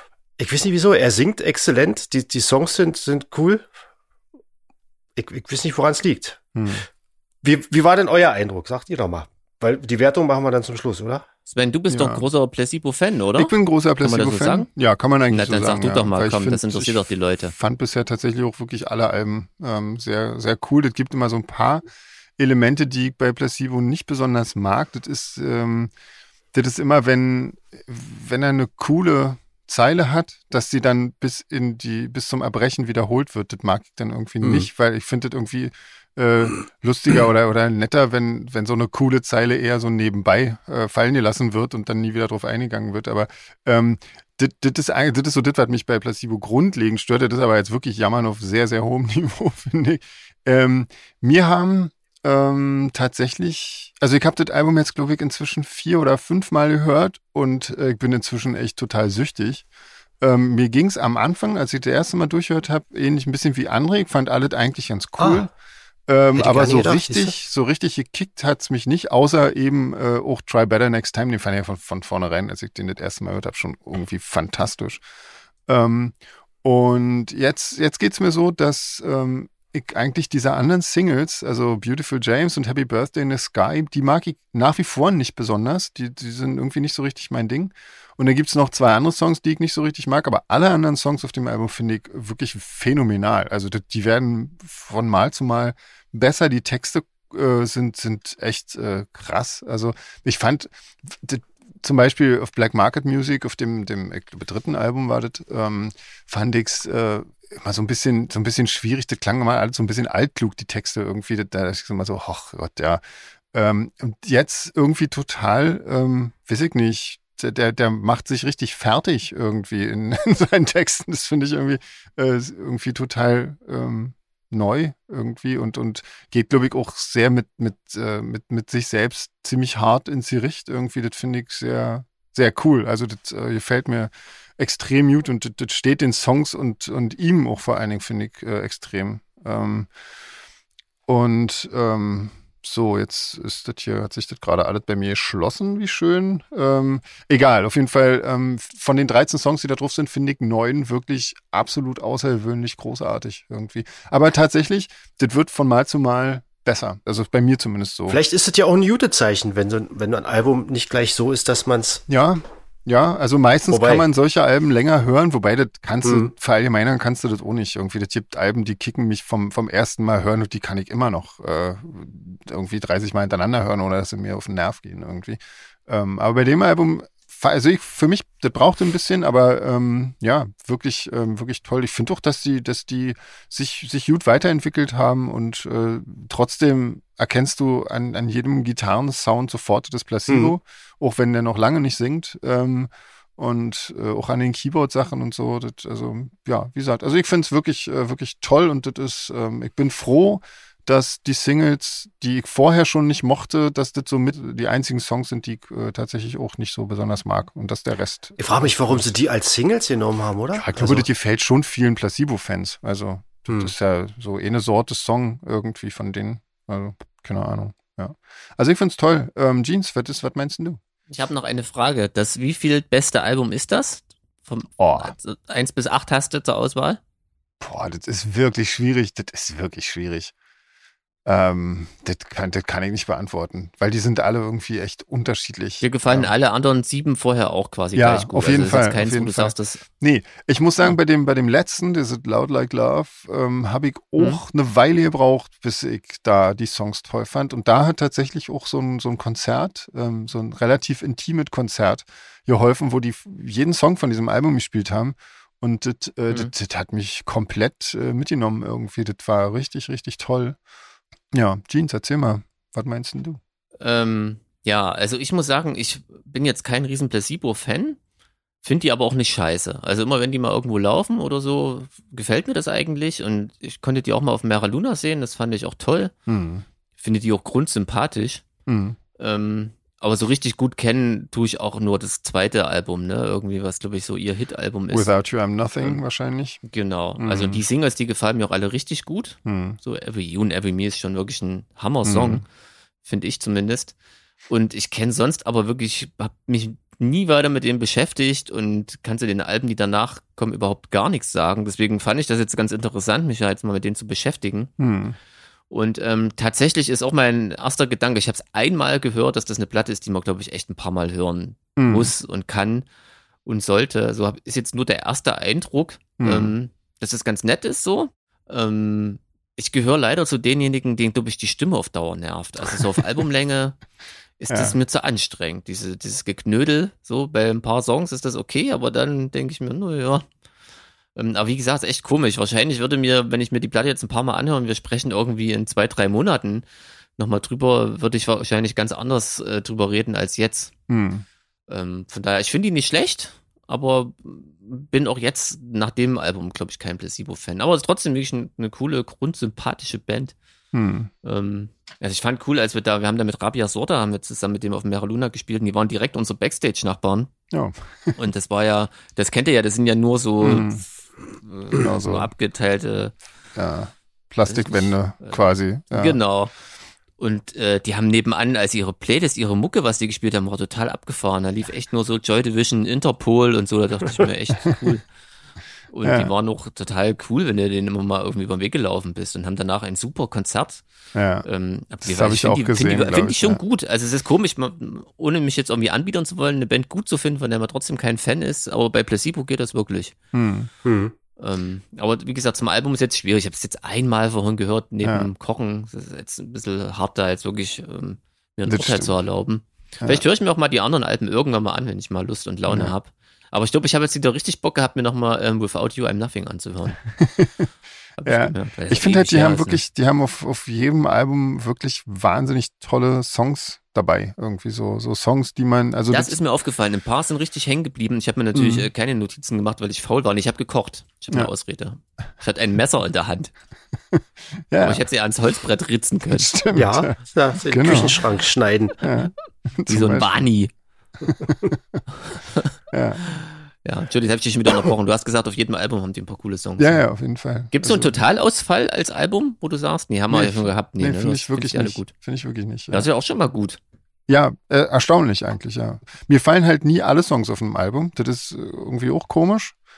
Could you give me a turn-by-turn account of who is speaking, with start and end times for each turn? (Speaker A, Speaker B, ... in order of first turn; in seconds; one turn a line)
Speaker A: 0.4-3.6
Speaker A: 5.2-6.5
Speaker B: 6.5-6.8
Speaker A: 7.4-11.2
Speaker C: 11.5-14.7
Speaker B: 11.9-12.2
Speaker B: 13.4-21.8
Speaker C: 15.3-17.5
Speaker B: 22.4-25.9
Speaker B: 26.5-59.6
Speaker A: 34.4-34.7
Speaker B: 60.2-65.5
Speaker A: 65.2-65.5
Speaker B: 66.1-75.0
Speaker A: 66.3-67.3
Speaker B: 75.7-139.9
Speaker B: 141.1-158.2
Speaker A: 158.1-162.0
Speaker B: 162.1-209.0
Speaker A: 163.7-164.1
Speaker A: 166.0-166.3
Speaker A: 208.4-211.1
Speaker B: 210.6-220.8
Speaker A: 213.5-213.7
Speaker C: 221.1-227.0
Speaker B: 224.8-225.1
Speaker B: 227.6-230.3
Speaker B: 231.2-236.3
Speaker C: 235.8-239.8
Speaker B: 237.9-260.6
Speaker B: 261.3-263.4
Speaker C: 263.8-268.0
Speaker C: 268.6-276.1
Speaker B: 276.3-276.6
Speaker C: 277.0-278.4
Speaker B: 278.6-279.0
Speaker C: 279.2-285.1
Speaker B: 284.9-286.6
Speaker C: 286.6-292.4
Speaker B: 287.2-287.6
Speaker B: 289.4-289.8
Speaker B: 292.0-292.4
Speaker C: 293.0-293.9
Speaker C: 294.5-304.7
Speaker B: 304.8-305.1
Speaker C: 305.7-312.9
Speaker B: 311.8-312.1
Speaker C: 313.4-323.8
Speaker B: 316.2-316.5
Speaker C: 324.4-330.2
Speaker B: 324.5-324.8
Speaker C: 331.1-336.6
Speaker C: 337.2-340.7
Speaker B: 340.9-341.2
Speaker C: 341.7-350.3
Speaker B: 350.7-351.1
Speaker C: 351.2-357.3
Speaker B: 357.5-358.2
Speaker C: 358.2-360.8
Speaker B: 360.4-360.8
Speaker C: 361.4-363.1
Speaker B: 361.7-362.3
Speaker B: 363.6-366.2
Speaker C: 364.4-366.5
Speaker C: 367.2-375.1
Speaker C: 375.9-380.8
Speaker B: 376.0-376.3
Speaker B: 381.1-381.4
Speaker C: 381.4-390.1
Speaker B: 382.0-383.6
Speaker B: 390.3-390.7
Speaker A: 390.8-391.1
Speaker C: 391.4-407.0
Speaker B: 395.0-395.3
Speaker B: 398.7-399.1
Speaker B: 402.7-402.9
Speaker B: 407.1-407.7
Speaker C: 408.2-409.8
Speaker B: 408.2-416.4
Speaker C: 416.1-423.5
Speaker B: 418.5-418.9
Speaker B: 424.1-425.0
Speaker C: 424.8-426.5
Speaker B: 426.3-428.3
Speaker A: 426.7-429.0
Speaker B: 429.0-430.3
Speaker C: 429.9-430.7
Speaker B: 431.2-432.0
Speaker C: 432.2-437.0
Speaker B: 432.9-433.2
Speaker B: 436.8-438.2
Speaker C: 437.7-442.1
Speaker B: 440.3-443.1
Speaker C: 442.9-443.8
Speaker B: 444.3-449.8